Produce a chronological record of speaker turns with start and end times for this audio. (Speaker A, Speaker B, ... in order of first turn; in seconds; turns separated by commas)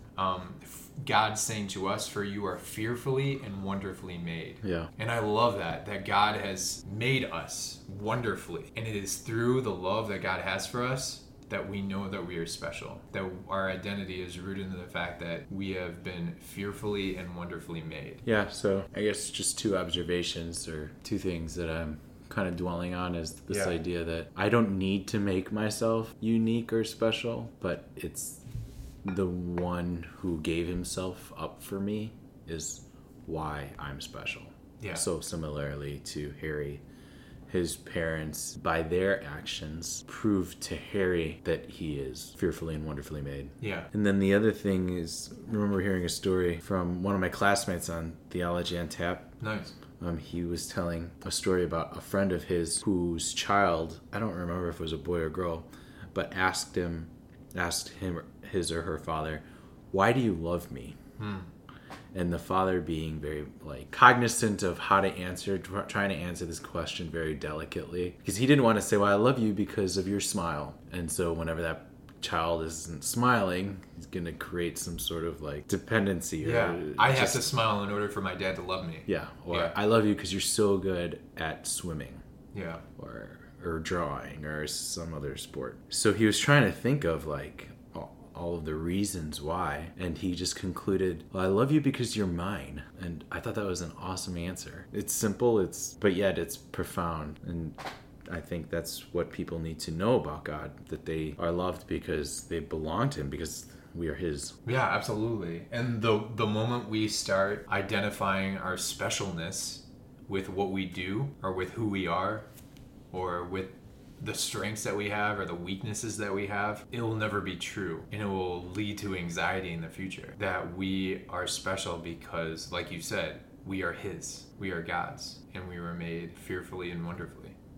Speaker A: 0.1-18.2, Speaker B: 4.6-4.9, Speaker B: 18.2-28.4, Speaker A: 23.5-23.7, Speaker B: 29.0-36.8, Speaker A: 34.8-35.0, Speaker B: 37.5-49.3, Speaker A: 43.6-43.9, Speaker A: 49.4-49.7, Speaker B: 50.0-61.0, Speaker A: 61.2-61.5, Speaker B: 62.1-77.4, Speaker A: 76.4-79.7, Speaker B: 79.1-82.2, Speaker A: 82.5-82.8, Speaker B: 83.0-104.6, Speaker A: 104.6-112.5, Speaker A: 113.1-127.5